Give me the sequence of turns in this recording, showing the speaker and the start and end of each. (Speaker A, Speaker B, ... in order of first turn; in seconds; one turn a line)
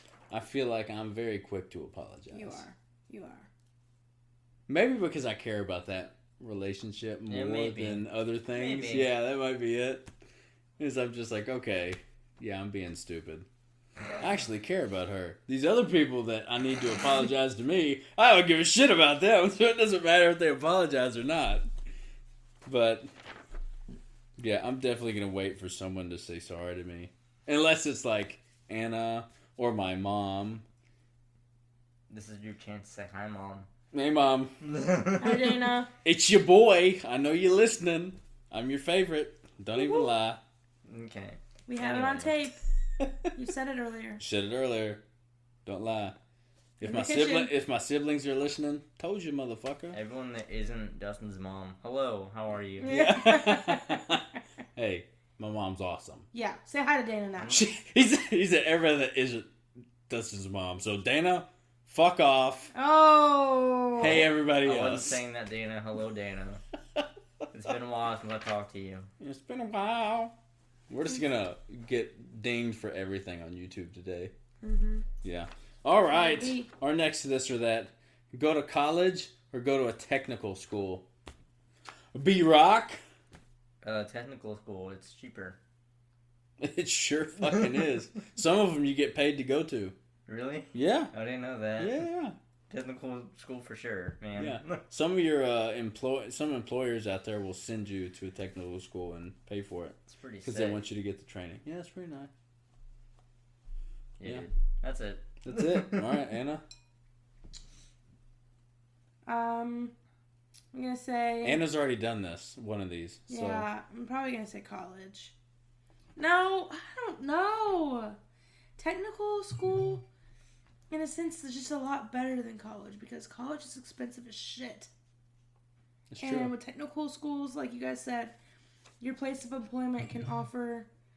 Speaker A: 0.3-2.6
Speaker B: 2.3-3.5
Speaker A: 4.7-10.1
Speaker C: 7.3-9.1
Speaker A: 10.8-13.5
Speaker A: 14.2-21.7
Speaker A: 22.6-23.1
Speaker A: 24.4-30.6
Speaker C: 32.1-33.7
Speaker A: 33.9-34.6
Speaker C: 34.6-35.5
Speaker B: 35.2-35.9
Speaker A: 36.0-40.4
Speaker B: 39.7-40.1
Speaker C: 40.9-42.3
Speaker B: 41.7-42.6
Speaker B: 43.3-44.2
Speaker A: 44.2-45.0
Speaker A: 45.6-46.2
Speaker A: 46.8-50.0
Speaker B: 46.8-47.5
Speaker C: 49.9-52.9
Speaker B: 52.8-54.2
Speaker A: 52.9-56.3
Speaker B: 56.3-57.6
Speaker A: 57.5-59.5
Speaker A: 60.1-62.7
Speaker B: 62.7-64.2
Speaker A: 64.0-65.2
Speaker C: 64.0-66.6
Speaker C: 67.5-69.1
Speaker A: 69.2-70.3
Speaker A: 70.9-74.3
Speaker B: 74.6-75.1
Speaker A: 75.2-81.1
Speaker B: 76.1-76.7
Speaker A: 82.1-83.0
Speaker C: 83.8-85.6
Speaker A: 86.6-90.0
Speaker C: 87.4-87.9
Speaker C: 90.3-92.0
Speaker A: 90.7-91.1
Speaker A: 91.8-92.3
Speaker C: 92.7-94.8
Speaker A: 94.4-102.3
Speaker C: 100.1-100.8
Speaker C: 104.2-106.2
Speaker A: 105.4-106.6
Speaker B: 109.3-110.0
Speaker B: 110.7-111.6
Speaker A: 111.4-113.7
Speaker B: 113.3-115.3
Speaker B: 116.2-118.2
Speaker B: 118.8-120.1
Speaker B: 120.9-124.9
Speaker A: 126.1-126.5
Speaker B: 126.2-128.4
Speaker B: 129.0-130.9